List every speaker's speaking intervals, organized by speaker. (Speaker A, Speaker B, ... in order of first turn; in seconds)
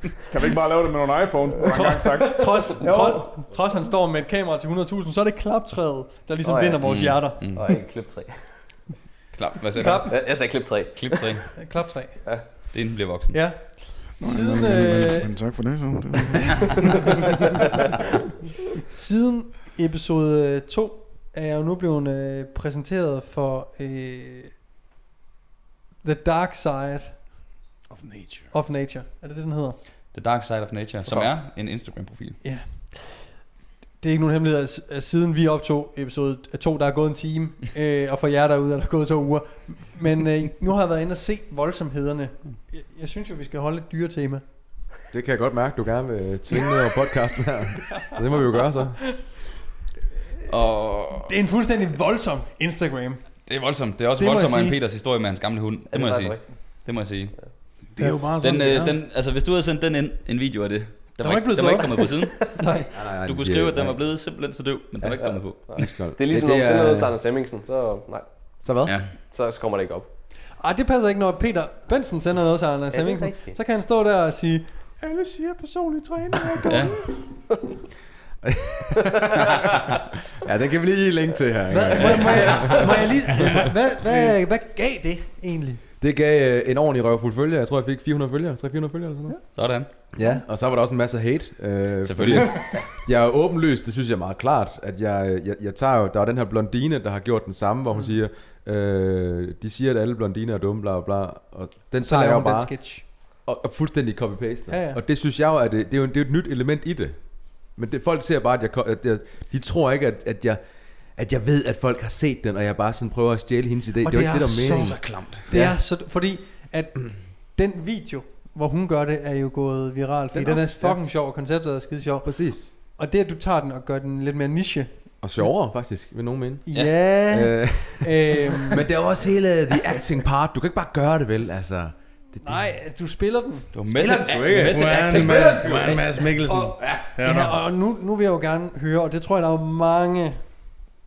Speaker A: 0.3-3.2, 14.2-16.7
Speaker B: 1.7-7.4, 9.8-10.1, 11.6-12.8, 13.3-15.6, 18.9-24.6, 26.0-27.2, 28.5-29.8, 31.0-31.3, 32.4-33.4, 34.0-44.5, 51.2-53.6, 54.2-54.8, 62.5-62.9, 70.5-77.1, 81.7-85.8, 102.0-103.0, 104.7-105.0, 114.0-125.7, 126.7-128.8, 132.4-133.7, 136.4-140.8
Speaker C: 6.4-8.8, 10.0-11.7, 55.9-57.5, 65.5-70.1, 72.9-73.6
Speaker D: 6.8-7.7, 9.3-11.6, 12.7-13.7, 30.1-32.4, 50.5-51.3, 53.5-66.1, 68.8-69.2, 76.7-76.9, 82.0-82.3, 89.5-89.9, 92.0-92.8, 114.7-115.5, 133.7-136.1
Speaker E: 14.3-15.1, 27.9-28.5, 57.9-59.0, 61.2-62.1, 134.6-137.6
Speaker F: 45.1-49.2, 62.9-64.0, 65.7-67.1, 68.6-69.0, 78.4-79.6, 80.4-83.2, 86.0-115.8, 120.3-121.0, 122.2-122.7, 125.2-132.8, 133.9-136.2